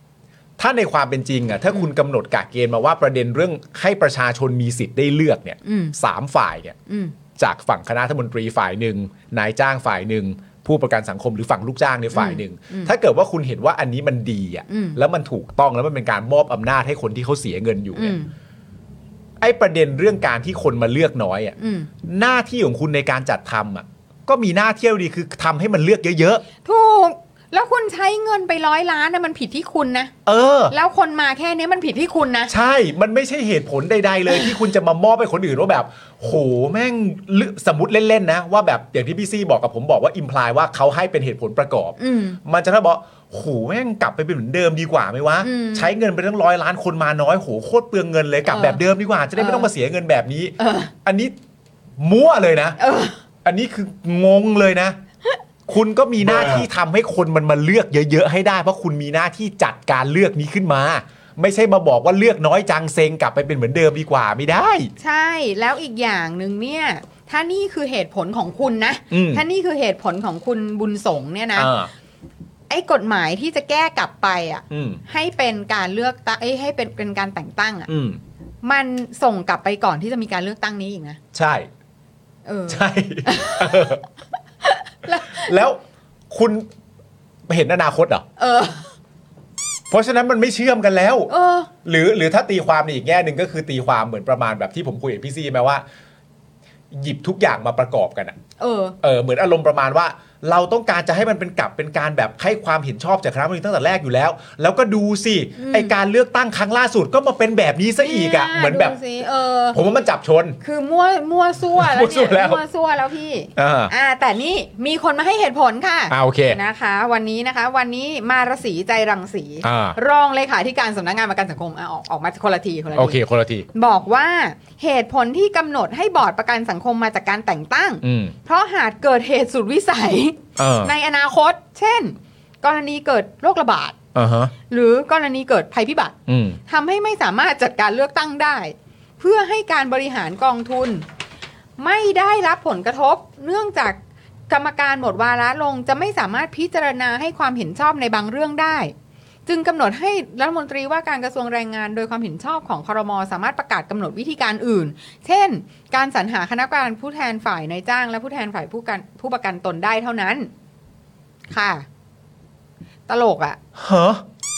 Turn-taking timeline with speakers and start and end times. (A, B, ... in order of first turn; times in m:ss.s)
0:00.6-0:06.8 A
0:05.6-0:06.0 B
0:06.9-0:07.2 B
0:07.4-0:18.2 A
0:12.1-0:12.9 B
0:14.7-0:15.0 B
0:17.9-0:18.3 B
0:19.4-0:26.4 A
0:21.6-0:21.9 B
0:26.6-0:30.1 B
0:30.3-0:30.7 A
0:30.7-0:32.5 B
0:32.5-0:51.3 A
0:42.0-0:42.4 B
0:45.4-0:45.9 B
0:48.5-0:48.8 B
0:49.4-0:49.7 B
0:50.6-0:50.9 B
0:52.0-0:52.8 A
0:52.8-0:53.2 B
0:53.4-0:55.0 A
0:55.7-1:04.9 A
1:05.0-1:11.7 B
1:09.1-1:09.4 A
1:11.6-1:11.9 A
1:12.7-1:17.9 B
1:14.7-1:15.0 A
1:17.9-1:18.2 A
1:18.6-1:21.2 B
1:21.3-1:21.7 A
1:22.5-1:23.9 B
1:22.7-1:24.0 A
1:24.6-1:25.5 B
1:25.4-1:25.8 A
1:26.3-1:26.7 A
1:27.5-1:28.2 A
1:28.4-1:28.9 B
1:29.9-1:31.3 A
1:31.3-1:31.7 B
1:31.8-1:35.8 A
1:36.9-1:38.4 A
1:38.6-1:39.0 B
1:39.0-1:49.0 A
1:45.6-1:45.9 B
1:48.0-1:49.8 B
1:49.7-1:50.6 A
1:50.6-2:03.2 B
1:51.8-1:52.6 A
1:53.6-1:53.9 A
1:56.1-1:56.6 A
1:59.6-2:00.0 A
2:03.0-2:03.7 A
2:03.7-2:14.0 B
2:08.0-2:08.4 A
2:10.6-2:10.9 A
2:14.2-2:14.5 A
2:14.7-2:16.2 B
2:16.3-2:16.6 A
2:16.7-2:21.0 B
2:21.8-2:24.0 B
2:24.5-2:28.9 B
2:29.5-2:40.5 B
2:41.5-2:41.9 B
2:43.1-2:43.6 B
2:43.8-2:44.2 A